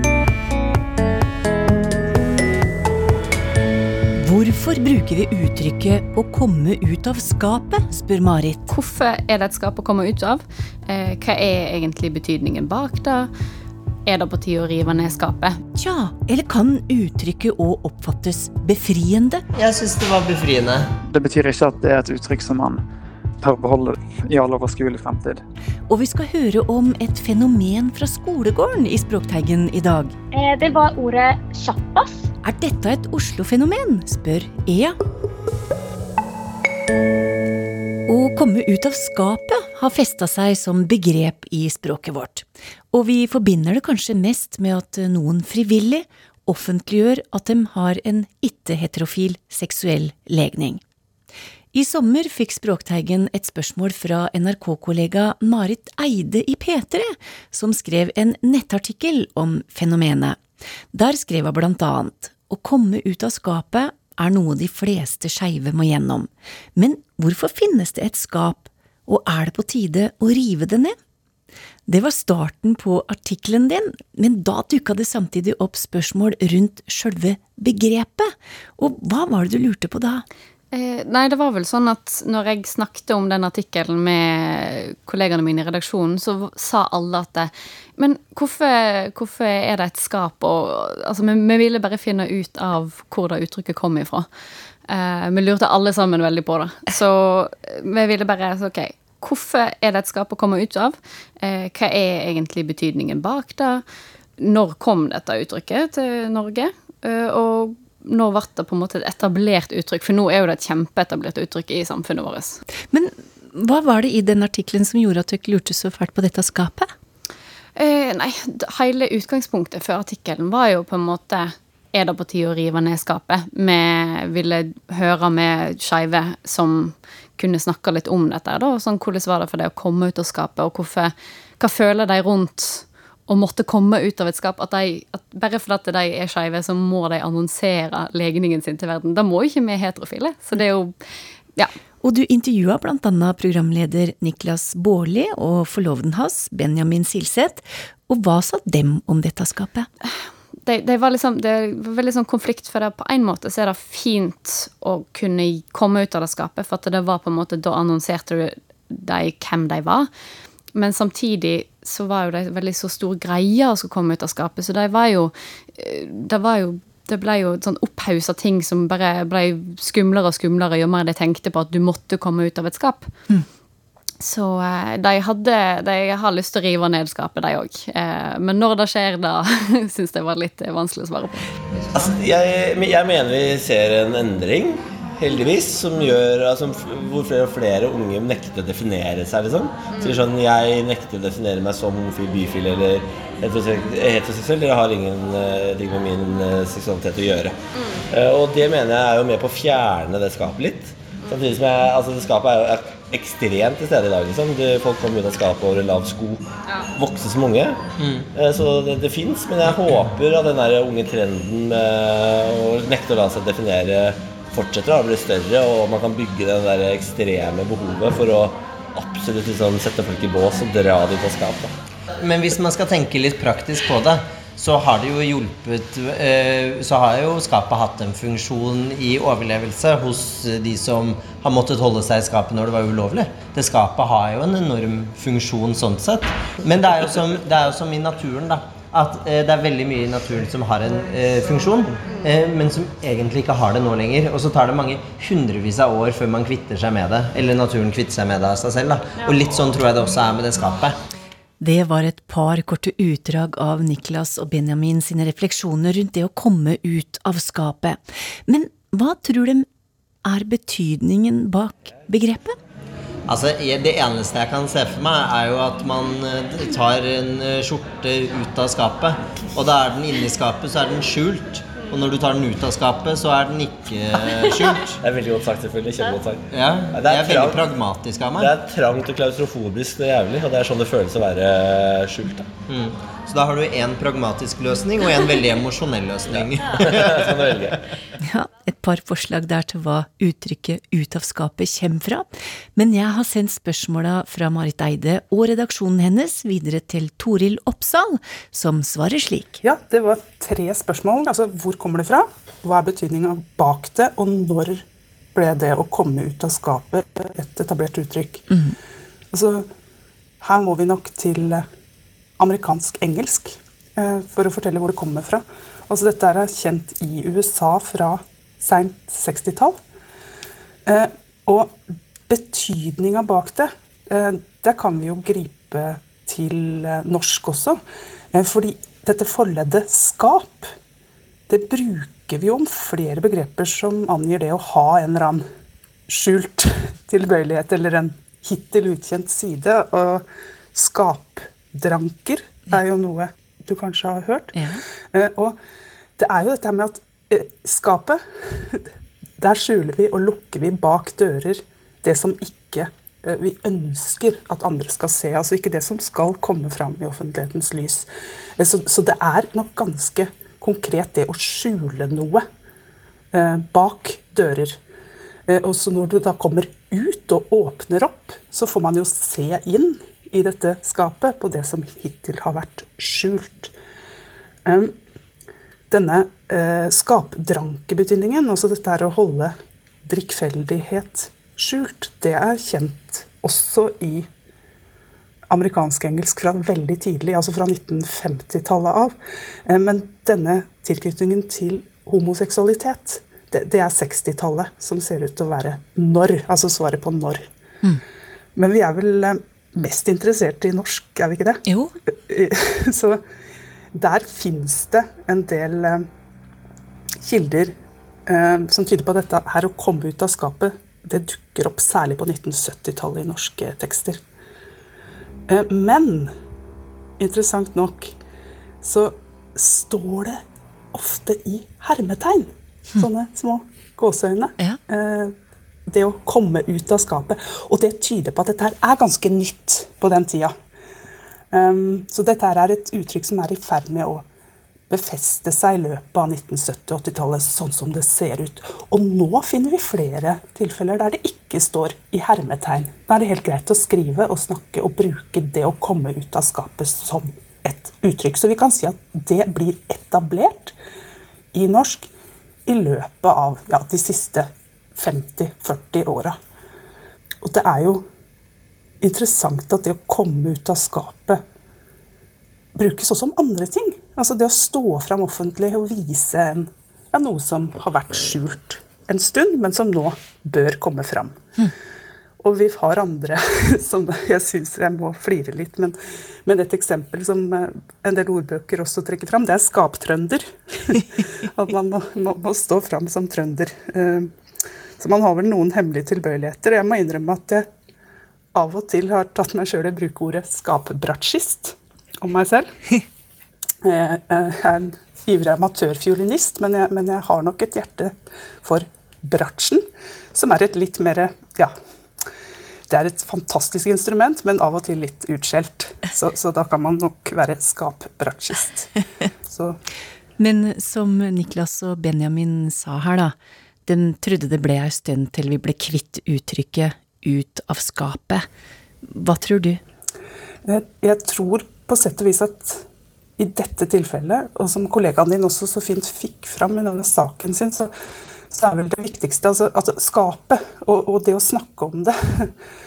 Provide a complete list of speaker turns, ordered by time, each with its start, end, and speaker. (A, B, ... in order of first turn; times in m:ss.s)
0:04.1-0:08.7 A
0:08.7-0:13.3 B
0:14.0-0:15.6 B
0:15.8-0:19.4 A
0:19.5-0:20.9 C
0:21.0-0:22.8 D
0:23.4-0:25.4 D
0:25.9-0:30.2 A
0:30.3-0:32.3 E
0:32.4-0:35.0 A
0:38.1-0:50.8 A
0:51.7-1:00.4 A
1:00.9-1:11.0 A
1:11.9-1:20.2 A
1:20.7-1:34.3 B
1:34.9-1:43.8 B
1:44.4-1:52.6 B
1:52.9-1:56.9 A
1:57.8-2:21.0 B
2:22.0-2:29.9 A
2:30.6-2:40.1 B
2:40.7-2:53.1 B
2:54.2-3:01.5 B
3:01.9-3:41.8 F
3:28.0-3:28.3 C
3:42.2-4:11.0 C
4:11.6-4:19.7 A
4:20.2-4:22.6 A
4:23.3-4:35.0 C
4:35.0-4:37.7 F
4:36.5-4:38.5 C
4:38.4-4:42.5 F
4:42.7-4:47.6 C
4:46.3-4:47.8 F
4:48.2-4:59.6 A
4:59.6-5:04.8 G
5:05.4-5:08.5 G
5:09.3-5:09.7 G
5:10.4-5:11.6 G
5:12.4-5:19.8 G
5:20.9-5:27.8 G
5:28.3-5:30.7 G
5:31.5-5:35.4 G
5:36.1-5:44.6 G
5:44.5-5:44.8 A
5:45.1-5:45.6 G
5:46.2-5:48.8 G
5:49.4-5:58.1 G
5:58.6-6:02.4 G
6:03.3-6:04.8 G
6:05.5-6:13.7 G
6:14.7-6:14.9 G
6:15.9-6:19.5 G
6:20.0-6:24.3 G
6:25.5-6:29.2 G
6:29.7-6:37.4 G
6:38.6-6:43.2 G
6:41.7-6:42.0 A
6:43.9-6:46.1 G
6:47.2-6:47.7 G
6:48.3-6:54.2 G
6:55.5-6:56.3 G
6:57.2-6:58.1 G
6:58.8-7:00.4 G
7:00.9-7:05.3 G
7:05.9-7:10.5 G
7:11.5-7:14.2 G
7:14.9-7:30.8 G
7:31.5-7:32.1 G
7:32.7-7:36.4 G
7:37.4-7:38.1 G
7:39.0-7:41.4 G
7:42.8-7:51.4 G
7:52.4-8:04.3 G
8:05.0-8:07.7 G
8:08.5-8:12.7 G
8:13.8-8:21.7 G
8:22.9-8:28.9 G
8:29.5-8:29.8 G
8:30.4-8:33.4 A
8:33.9-8:38.5 A
8:39.0-8:39.8 A
8:40.6-8:42.8 G
8:43.4-8:47.9 G
8:48.5-8:52.6 G